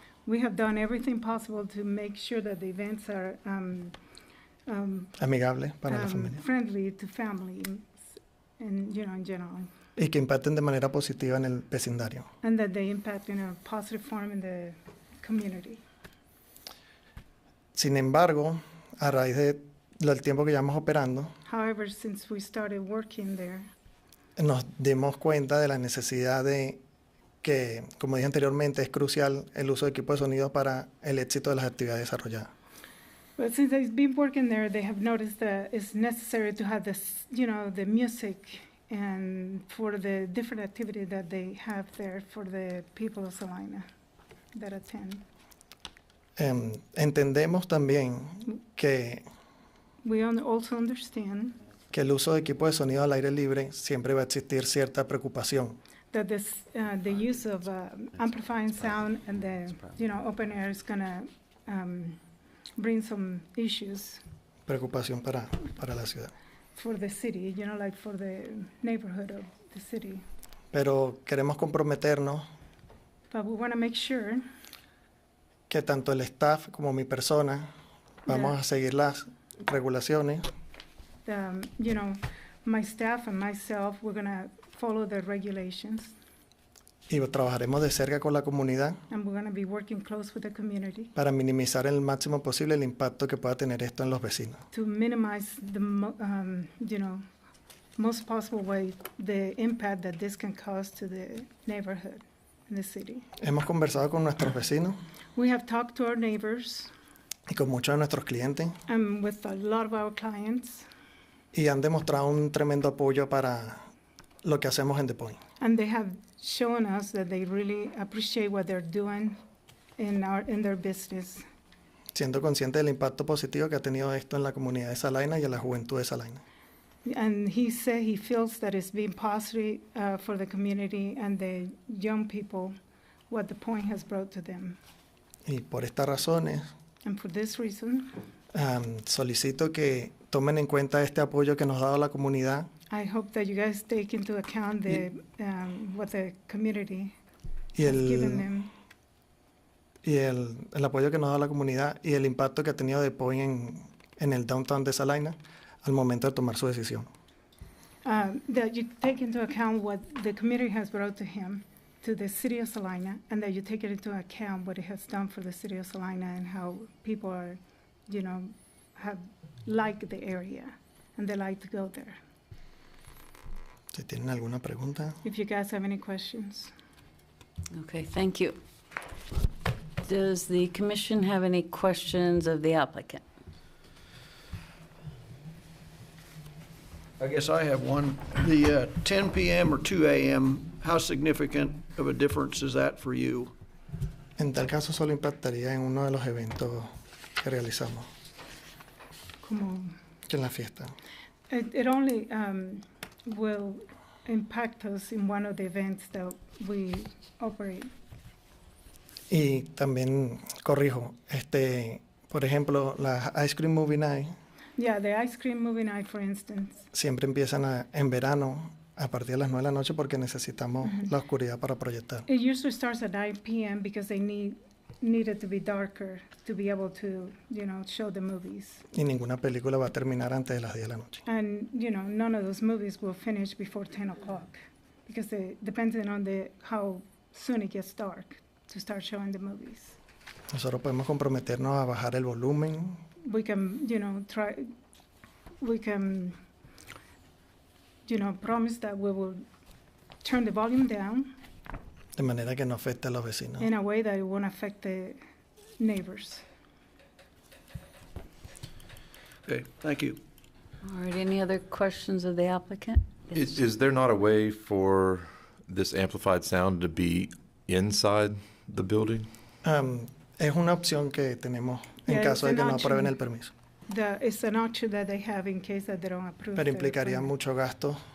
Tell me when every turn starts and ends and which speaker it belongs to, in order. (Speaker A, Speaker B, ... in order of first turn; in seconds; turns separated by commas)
Speaker A: 0.3-4.0, Speaker A: 4.7-5.2, Speaker B: 5.2-6.4, Speaker A: 5.9-7.9, Speaker A: 8.6-9.7, Speaker B: 10.0-12.3, Speaker A: 12.4-15.8, Speaker B: 17.7-21.3, Speaker A: 21.4-23.7, Speaker B: 24.4-26.8, Speaker B: 27.4-32.5, Speaker A: 33.4-43.9, Speaker A: 44.5-45.2, Speaker B: 46.4-49.2, Speaker A: 50.0-51.6, Speaker B: 51.9-55.8, Speaker A: 56.1-62.2, Speaker A: 62.8-64.2, Speaker B: 64.7-66.3, Speaker A: 66.8-70.2, Speaker B: 70.7-72.5, Speaker A: 73.3-74.4, Speaker B: 75.7-77.7, Speaker B: 78.2-80.5, Speaker A: 78.3-78.5, Speaker A: 81.2-86.1, Speaker B: 87.1-89.0, Speaker A: 89.1-91.1, Speaker B: 91.2-94.6, Speaker A: 94.7-97.2, Speaker A: 98.0-103.3, Speaker B: 103.4-105.0, Speaker A: 105.4-106.9, Speaker B: 107.5-108.8, Speaker A: 108.9-110.9, Speaker B: 111.5-113.9, Speaker B: 114.4-115.4, Speaker A: 115.6-119.4, Speaker A: 120.0-121.5, Speaker B: 122.1-126.4, Speaker A: 127.0-132.8, Speaker A: 133.3-134.8, Speaker B: 135.4-136.7, Speaker A: 137.0-138.2, Speaker B: 138.5-142.7, Speaker A: 142.9-147.1, Speaker B: 147.8-148.5, Speaker A: 147.8-148.7, Speaker B: 150.0-157.1, Speaker A: 158.0-172.2, Speaker B: 173.9-175.2, Speaker A: 175.2-176.7, Speaker C: 177.7-178.6, Speaker C: 180.0-183.2, Speaker D: 187.2-193.5, Speaker B: 194.4-196.9, Speaker B: 197.4-198.1, Speaker A: 199.4-199.9, Speaker B: 200.3-200.9, Speaker A: 201.5-207.9, Speaker B: 209.3-214.3, Speaker A: 214.8-216.9, Speaker B: 216.9-222.3, Speaker A: 222.3-228.8, Speaker B: 228.9-231.2, Speaker A: 231.2-240.0, Speaker B: 240.5-243.0, Speaker A: 243.2-244.7, Speaker A: 245.6-246.4, Speaker A: 248.1-249.4, Speaker A: 250.2-251.3, Speaker B: 252.2-253.7, Speaker A: 253.6-255.2, Speaker A: 255.8-256.4, Speaker D: 259.5-260.2, Speaker C: 260.8-263.5, Speaker E: 263.3-269.3, Speaker B: 269.6-273.5, Speaker A: 272.1-273.1, Speaker A: 273.9-277.3, Speaker B: 276.6-278.0